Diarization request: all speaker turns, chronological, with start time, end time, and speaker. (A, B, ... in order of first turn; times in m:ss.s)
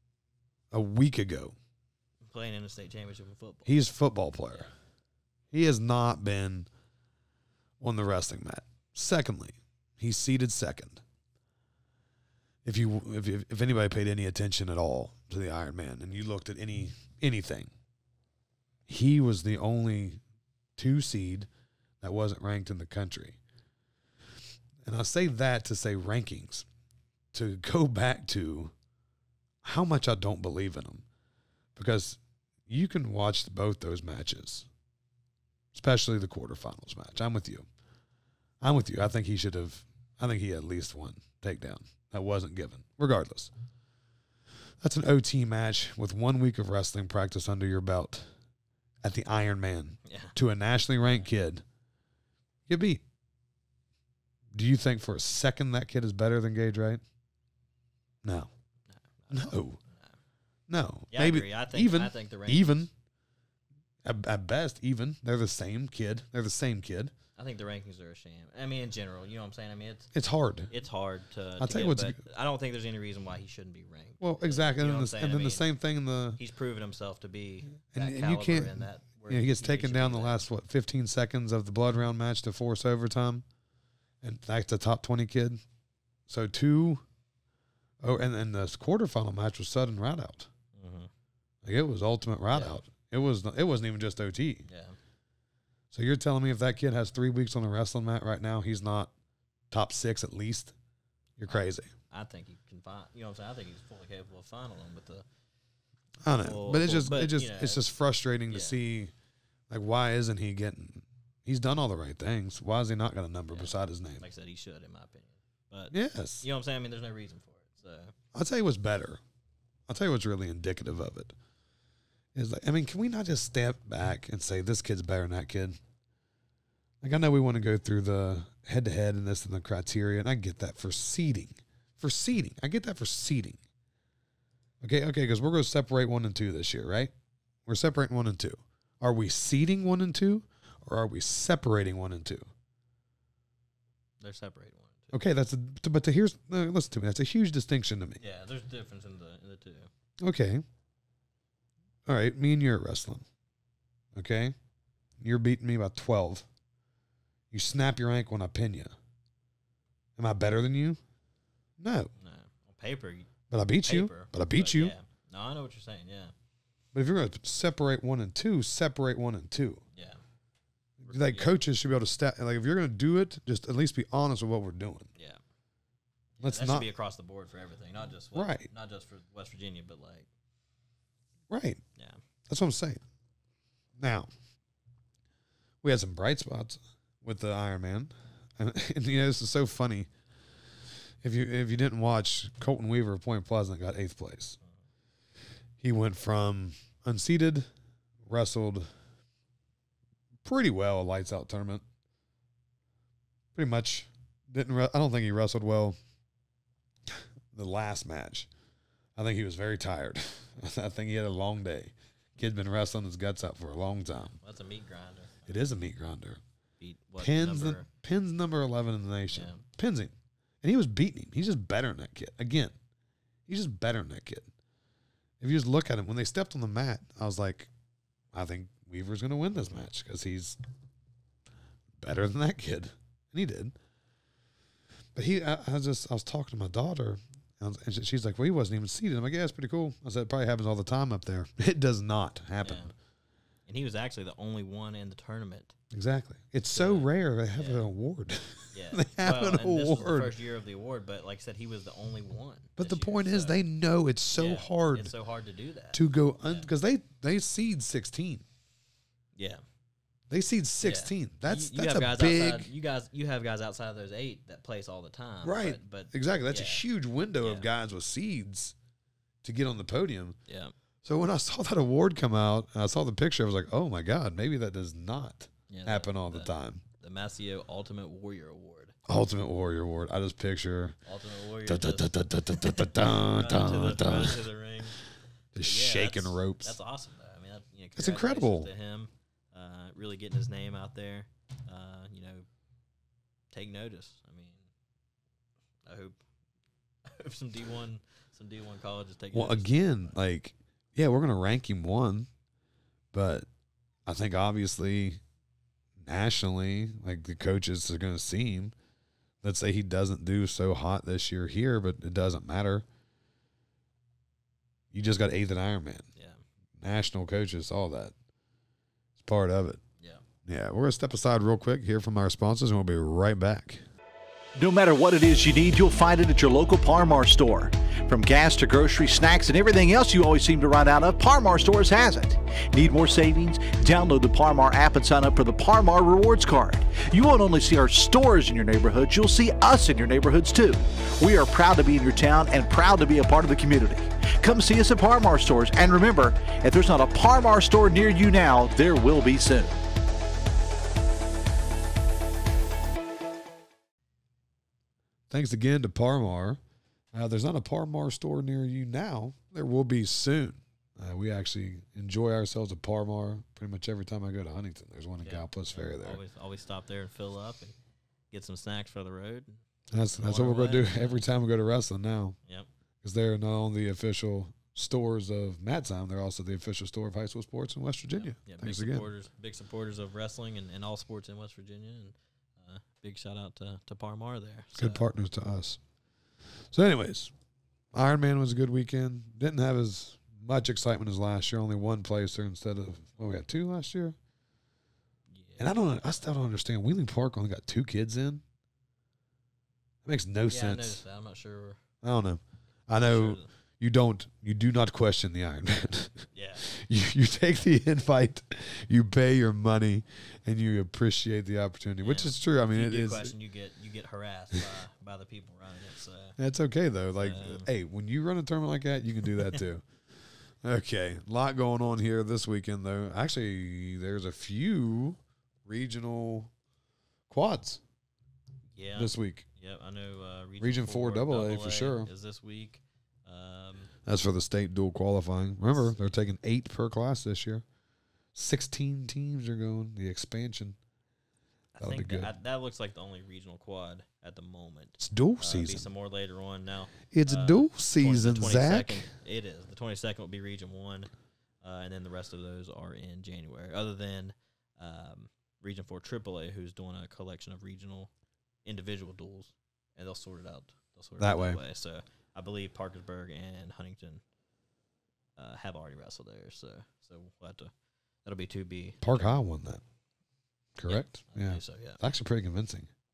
0:00.7-0:01.5 A
0:02.3-0:03.8 B
0:03.6-0:04.7 A
0:05.5-0:06.7 A
0:07.8-0:11.0 A
0:12.6-0:17.7 A
0:18.9-0:20.2 A
0:20.8-0:21.5 A
0:22.0-0:23.4 A
0:24.8-0:26.6 A
0:27.3-0:28.7 A
0:29.6-0:31.0 A
0:31.8-0:34.7 A
0:35.7-0:37.7 A
0:38.6-0:43.5 A
0:44.8-0:48.3 A
0:49.0-0:51.6 A
0:50.0-0:50.4 B
0:52.7-0:53.0 A
0:54.5-0:57.0 A
0:58.2-0:58.5 A
0:58.9-1:00.2 B
0:59.3-0:59.8 A
1:00.7-1:02.9 A
1:01.1-1:02.9 B
1:04.0-1:07.1 A
1:07.4-1:10.1 B
1:10.1-1:10.7 A
1:10.7-1:15.7 B
1:11.6-1:12.2 A
1:14.2-1:16.4 A
1:16.4-1:20.4 B
1:17.9-1:23.4 A
1:24.2-1:25.6 A
1:26.3-1:27.0 A
1:28.0-1:30.5 A
1:30.8-1:31.1 B
1:31.6-1:34.7 A
1:32.5-1:32.8 B
1:34.6-1:35.0 B
1:35.9-1:39.1 A
1:39.7-1:40.7 A
1:41.4-1:41.9 A
1:41.5-1:45.2 B
1:46.2-1:49.1 A
1:46.4-1:47.9 B
1:48.5-1:48.8 B
1:49.7-1:54.2 A
1:53.5-1:58.1 B
1:55.9-1:56.5 A
1:58.3-1:59.2 A
1:59.9-2:01.3 A
2:02.4-2:05.8 A
2:07.0-2:13.6 A
2:14.8-2:17.1 A
2:17.6-2:22.5 A
2:24.2-2:25.1 B
2:25.1-2:28.2 A
2:28.2-2:29.9 B
2:30.2-2:30.6 A
2:32.0-2:33.2 A
2:34.1-2:34.5 A
2:35.2-2:36.5 A
2:37.5-2:38.9 A
2:40.2-2:41.0 A
2:41.8-2:42.1 A
2:42.2-2:43.3 B
2:43.5-2:44.9 A
2:43.8-2:46.3 B
2:46.9-2:49.8 A
2:49.9-2:50.2 B
2:51.0-2:55.1 A
2:51.0-2:51.6 B
2:56.4-3:00.3 B
2:56.4-2:56.9 A
2:58.3-2:58.7 A
3:01.5-3:01.8 A
3:02.5-3:03.0 A
3:04.0-3:04.3 A
3:05.8-3:10.1 A
3:11.2-3:14.6 A
3:15.8-3:17.7 A
3:18.2-3:18.9 A
3:20.4-3:21.8 A
3:23.5-3:26.0 A
3:27.1-3:28.5 A
3:29.2-3:34.4 A
3:34.3-3:35.8 B
3:35.5-3:36.4 A
3:36.8-3:37.9 B
3:37.2-3:42.8 A
3:39.3-3:39.6 B
3:43.5-3:44.5 A
3:45.4-3:47.7 A
3:48.3-3:50.6 A
3:49.5-3:49.9 B
3:52.0-3:53.8 A
3:55.2-4:02.9 A
4:02.6-4:02.9 B
4:03.7-4:05.8 B
4:05.9-4:10.3 A
4:06.7-4:07.9 B
4:08.7-4:13.6 B
4:12.8-4:15.1 A
4:14.3-4:16.7 B
4:15.9-4:18.4 A
4:19.4-4:19.6 B
4:20.3-4:22.7 A
4:20.8-4:26.8 B
4:25.4-4:28.8 A
4:27.4-4:27.7 B
4:29.4-4:30.4 A
4:30.5-4:30.7 B
4:31.0-4:36.8 A
4:35.7-4:39.0 B
4:39.1-4:41.0 A
4:41.0-4:45.0 B
4:41.6-4:44.5 A
4:45.5-4:46.8 A
4:45.6-4:52.5 B
4:48.0-4:48.7 A
4:53.5-4:54.7 B
4:55.9-4:56.2 B
4:57.0-5:00.2 B
4:59.3-5:02.3 A
5:03.1-5:03.5 A
5:04.0-5:05.2 A
5:06.0-5:08.7 A
5:09.4-5:12.9 A
5:14.9-5:16.1 A
5:16.2-5:16.4 B
5:16.8-5:18.1 A
5:19.2-5:19.8 A
5:20.4-5:23.8 A
5:24.6-5:49.8 C
5:55.3-5:56.6 A
5:57.1-6:06.2 A
6:05.2-6:07.7 B
6:08.3-6:11.3 B
6:09.9-6:12.4 A
6:13.0-6:19.1 A
6:18.1-6:25.1 B
6:24.7-6:25.8 A
6:26.7-6:27.3 A
6:27.9-6:34.2 A
6:35.3-6:35.8 B
6:35.6-6:38.4 A
6:40.0-6:41.0 A
6:40.5-6:41.8 B
6:42.0-6:53.3 A
6:43.0-6:43.5 B
6:46.3-6:46.7 B
6:52.0-6:56.4 B
6:56.4-6:59.9 A
6:57.2-6:57.7 B
7:00.6-7:06.5 A
7:07.3-7:07.8 A
7:08.7-7:13.9 B
7:09.0-7:09.4 A
7:10.6-7:12.1 A
7:14.0-7:17.6 A
7:15.7-7:16.2 B
7:18.4-7:20.8 A
7:21.7-7:31.1 B
7:21.8-7:22.3 A
7:25.0-7:25.9 A
7:27.1-7:29.1 A
7:31.6-7:38.1 B
7:38.6-7:44.2 B
7:41.2-7:41.6 A
7:45.4-7:47.7 B
7:48.2-7:49.4 B
7:49.0-7:49.8 A
7:50.8-7:52.9 A
7:50.9-7:52.0 B